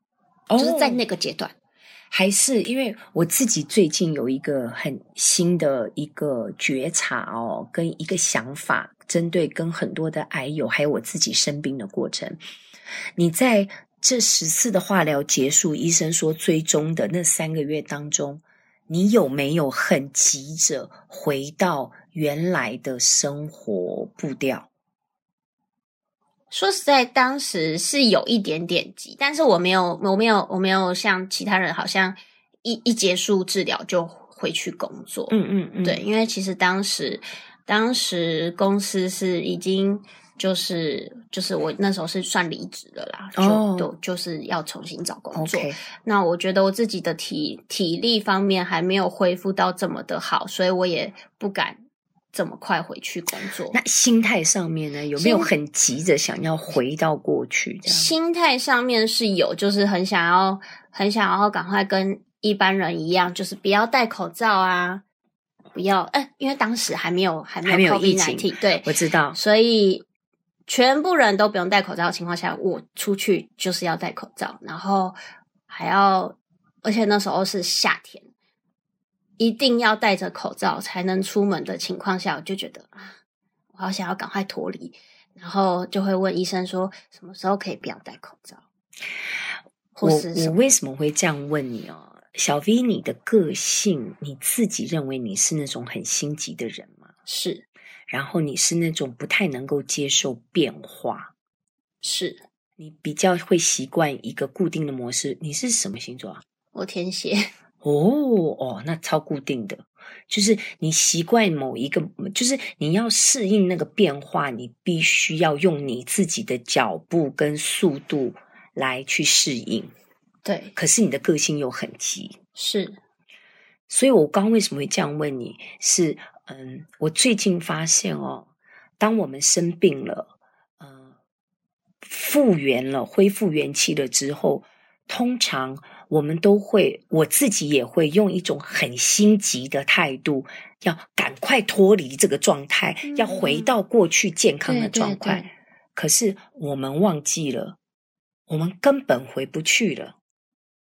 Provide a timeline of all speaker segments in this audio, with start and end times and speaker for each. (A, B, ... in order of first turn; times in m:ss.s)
0:00.5-0:01.0 A
0:00.6-0:01.5 B
0:02.1-0:12.4 A
0:13.2-0:24.7 A
0:26.5-0:51.8 B
0:35.3-0:36.0 A
0:43.4-0:43.9 A
0:45.3-0:45.8 A
0:52.3-0:53.8 B
0:53.7-0:58.1 A
0:55.1-0:55.5 B
0:57.9-1:05.0 B
1:05.7-1:10.0 B
1:07.6-1:09.4 A
1:10.7-1:15.2 B
1:15.7-1:18.2 B
1:19.4-1:23.1 B
1:23.7-1:28.6 B
1:29.9-1:30.7 B
1:30.0-1:37.1 A
1:37.2-1:37.6 B
1:38.1-1:41.3 A
1:42.0-1:42.4 B
1:42.8-1:46.4 A
1:46.7-1:47.5 B
1:47.8-1:59.9 A
2:00.4-2:00.7 B
2:00.8-2:02.4 A
2:02.6-2:03.0 B
2:03.9-2:08.5 A
2:09.0-2:11.1 A
2:12.0-2:27.8 A
2:23.0-2:23.7 B
2:24.6-2:25.5 B
2:28.5-2:30.1 A